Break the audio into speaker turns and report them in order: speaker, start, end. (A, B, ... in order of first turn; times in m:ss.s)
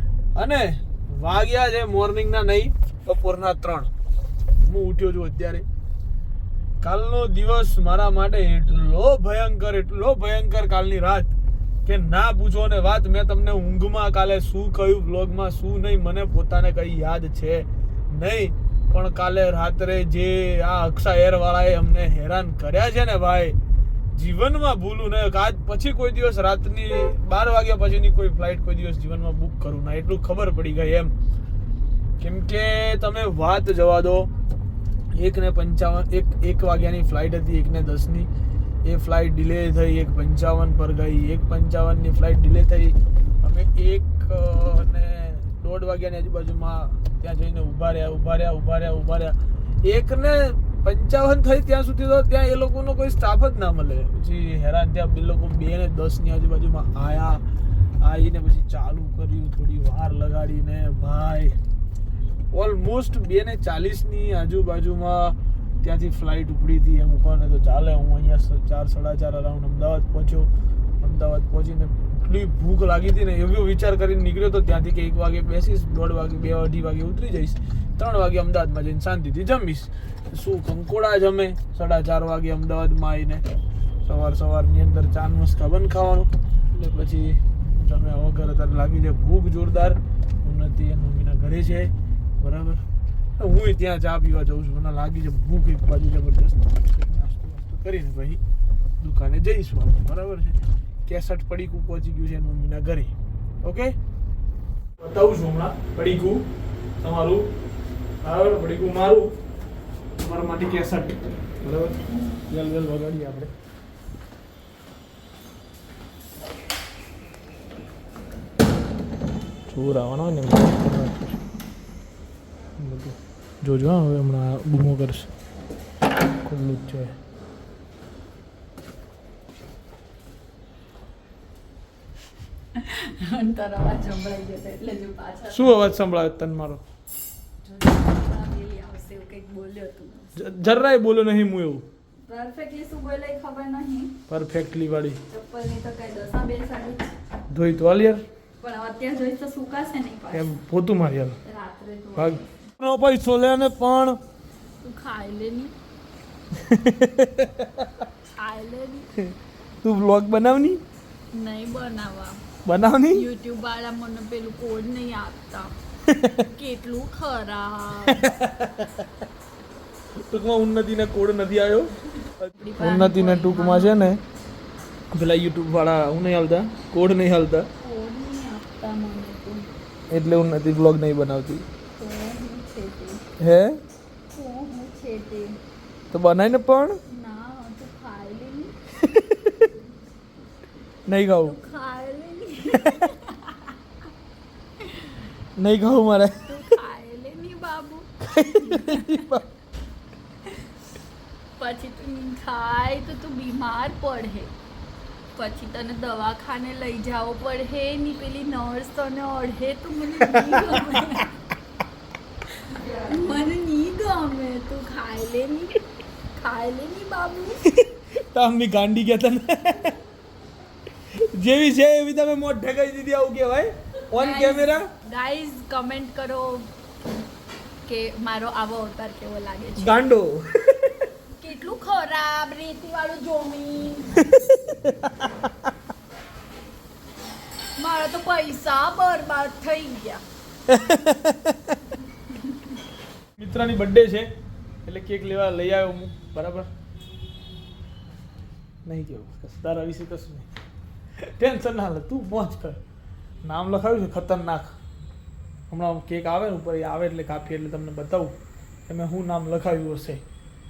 0:00.3-0:03.9 A
0:04.6-0:05.6 A
0:06.8-0:11.3 A
0:11.8-0:23.6 A
0:24.1-0:31.1 A
0:32.2-0:34.3 A
0:35.1-0:38.3 A
0:38.8-0:57.4 A
0:58.0-1:01.6 A
1:02.5-1:10.5 A
1:11.0-1:23.4 A
1:24.0-1:32.8 A
1:33.4-1:38.4 A
1:39.0-1:43.9 A
1:45.0-1:46.4 A
1:47.0-1:47.5 A
1:48.2-1:49.3 A
1:50.2-1:52.0 A
1:52.5-1:53.5 A
1:59.7-2:01.4 A
2:02.8-2:05.3 A
2:06.4-2:07.2 A
2:12.8-2:15.7 B
2:15.5-2:16.8 A
2:17.7-2:20.3 B
2:20.4-2:21.8 A
2:22.2-2:24.1 B
2:24.3-2:25.2 A
2:25.3-2:27.1 B
2:27.5-2:28.2 A
2:28.6-2:30.4 B
2:30.3-2:31.4 A
2:31.4-2:32.5 B
2:32.1-2:34.2 A
2:34.8-2:35.7 B
2:36.6-2:37.9 A
2:38.4-2:39.1 B
2:39.2-2:40.8 A
2:41.3-2:42.4 B
2:42.6-2:43.2 A
2:43.1-2:45.7 B
2:46.1-2:46.4 A
2:46.4-2:48.3 B
2:48.1-2:48.9 A
2:50.3-2:54.2 A
2:52.6-2:54.0 B
2:55.1-2:57.7 A
2:57.8-2:59.7 B
3:00.1-3:01.6 A
3:02.0-3:03.2 B
3:03.4-3:03.8 A
3:04.3-3:05.6 B
3:06.1-3:07.0 A
3:07.1-3:08.8 B
3:09.0-3:09.7 A
3:11.0-3:11.6 A
3:11.4-3:13.7 B
3:14.8-3:15.2 B
3:15.6-3:16.5 A
3:16.5-3:19.2 B
3:18.3-3:19.4 A
3:21.6-3:24.5 B
3:25.4-3:31.4 B
3:32.7-3:35.8 B
3:36.3-3:37.6 B
3:37.7-3:40.0 A
3:41.1-3:44.8 A
3:44.1-3:46.7 B
3:47.8-3:50.0 B
3:49.8-3:50.9 A
3:51.4-3:54.2 B
3:54.3-3:55.5 A
3:57.8-4:00.2 B
4:00.7-4:01.5 A
4:03.4-4:04.3 A
4:04.8-4:06.7 A
4:08.8-4:10.5 A
4:11.2-4:12.8 A
4:13.4-4:14.7 A
4:15.7-4:18.3 A
4:18.9-4:20.2 A